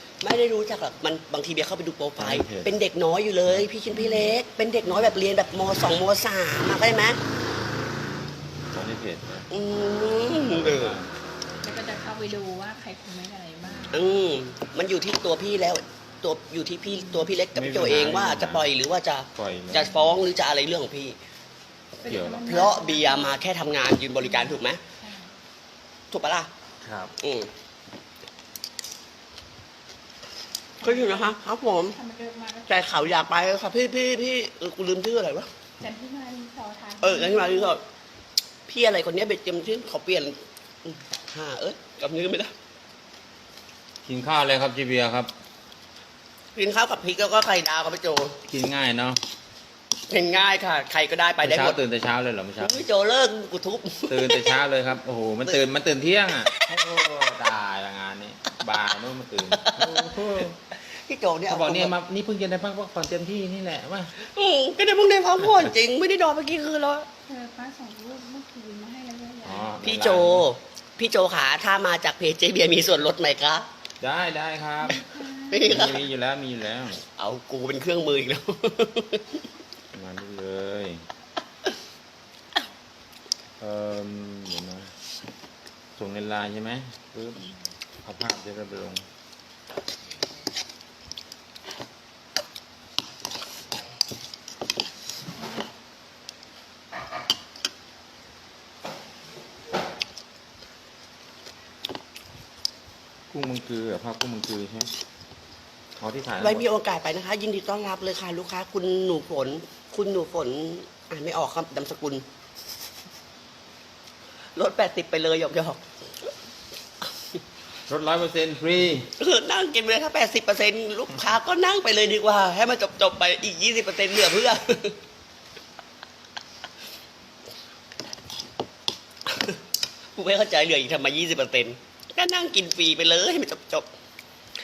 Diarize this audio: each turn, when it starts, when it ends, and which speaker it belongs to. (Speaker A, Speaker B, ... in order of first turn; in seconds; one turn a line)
Speaker A: 0.2-7.2
Speaker B: 2.2-2.7
Speaker C: 3.9-4.3
Speaker C: 4.8-5.2
Speaker B: 8.7-9.5
Speaker A: 9.5-11.0
Speaker B: 10.2-11.1
Speaker C: 11.6-14.1
Speaker A: 13.9-21.2
Speaker B: 17.5-18.7
Speaker B: 19.4-20.2
Speaker C: 22.0-23.4
Speaker B: 22.0-22.5
Speaker A: 22.4-24.8
Speaker C: 24.2-25.4
Speaker A: 26.1-26.5
Speaker B: 26.8-27.1
Speaker A: 27.2-27.5
Speaker C: 30.8-33.2
Speaker A: 30.8-32.0
Speaker A: 32.7-35.5
Speaker C: 35.8-37.8
Speaker A: 37.0-37.8
Speaker A: 38.7-42.5
Speaker B: 44.0-45.3
Speaker A: 46.6-48.4
Speaker B: 48.5-49.2
Speaker A: 50.1-51.8
Speaker B: 51.4-52.9
Speaker A: 52.6-54.6
Speaker B: 54.1-60.6
Speaker A: 56.5-56.8
Speaker A: 59.5-61.9
Speaker B: 61.5-64.1
Speaker A: 64.2-67.1
Speaker C: 67.3-69.8
Speaker B: 69.4-70.5
Speaker A: 69.8-73.7
Speaker B: 74.0-75.0
Speaker C: 74.8-75.8
Speaker A: 74.9-76.1
Speaker B: 75.6-77.0
Speaker A: 77.0-79.4
Speaker B: 79.9-81.0
Speaker B: 83.6-84.9
Speaker B: 86.0-87.5
Speaker B: 88.0-89.0
Speaker B: 103.3-104.9
Speaker B: 106.0-106.7
Speaker A: 106.4-112.2
Speaker A: 114.6-115.8
Speaker B: 117.9-119.1
Speaker A: 119.2-125.0
Speaker A: 129.3-129.6
Speaker A: 130.2-133.9